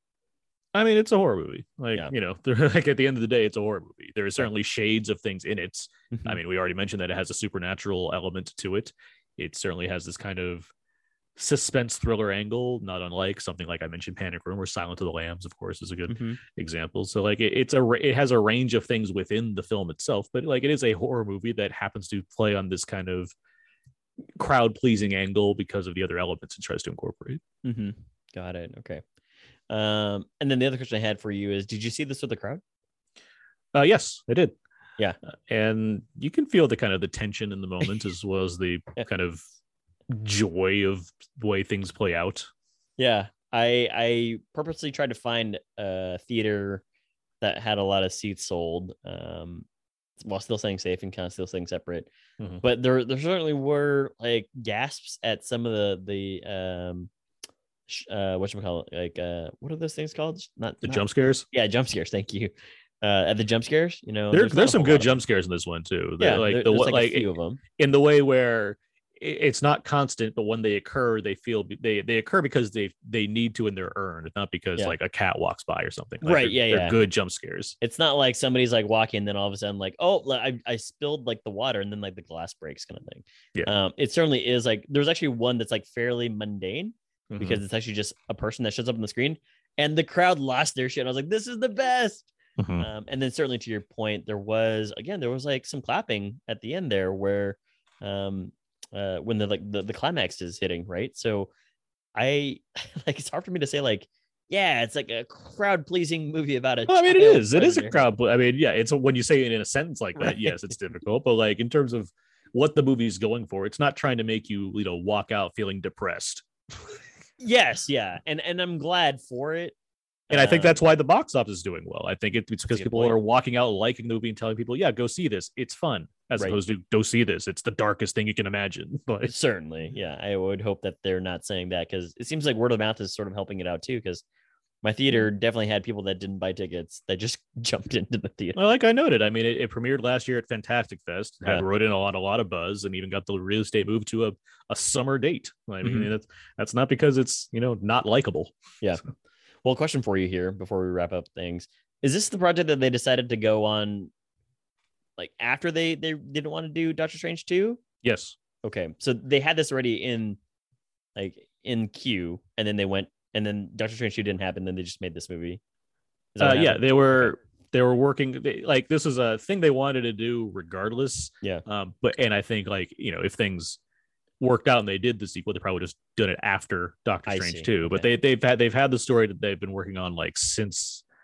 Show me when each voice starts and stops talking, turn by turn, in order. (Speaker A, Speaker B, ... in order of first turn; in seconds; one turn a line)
Speaker A: 0.7-10.7
Speaker B: 6.1-6.4
Speaker A: 11.3-23.3
Speaker B: 16.1-16.4
Speaker A: 24.4-27.4
Speaker B: 27.6-29.0
Speaker B: 29.7-32.6
Speaker A: 33.7-34.6
Speaker A: 35.5-39.4
Speaker A: 40.1-42.5
Speaker B: 43.0-46.8
Speaker B: 47.4-49.6
Speaker B: 50.2-52.1
Speaker B: 52.6-57.1
Speaker B: 57.9-65.1
Speaker A: 60.8-61.5
Speaker A: 64.3-77.7
Speaker B: 66.2-67.6
Speaker B: 76.2-77.0
Speaker B: 77.8-101.5
Speaker A: 87.3-87.6
Speaker A: 92.6-92.9
Speaker B: 102.1-108.0
Speaker A: 106.9-116.5
Speaker B: 110.2-110.5
Speaker B: 117.4-119.7
Speaker B: 120.3-120.8
Speaker A: 120.3-129.3
Speaker B: 122.7-123.2
Speaker B: 129.2-134.2
Speaker B: 134.8-138.6
Speaker A: 138.5-148.5
Speaker B: 145.8-146.1
Speaker B: 149.6-154.1
Speaker B: 155.2-157.8
Speaker A: 158.0-158.3
Speaker B: 158.6-160.4
Speaker B: 161.1-165.6
Speaker B: 166.3-167.3
Speaker A: 166.4-173.8
Speaker A: 174.4-181.0
Speaker B: 177.2-178.1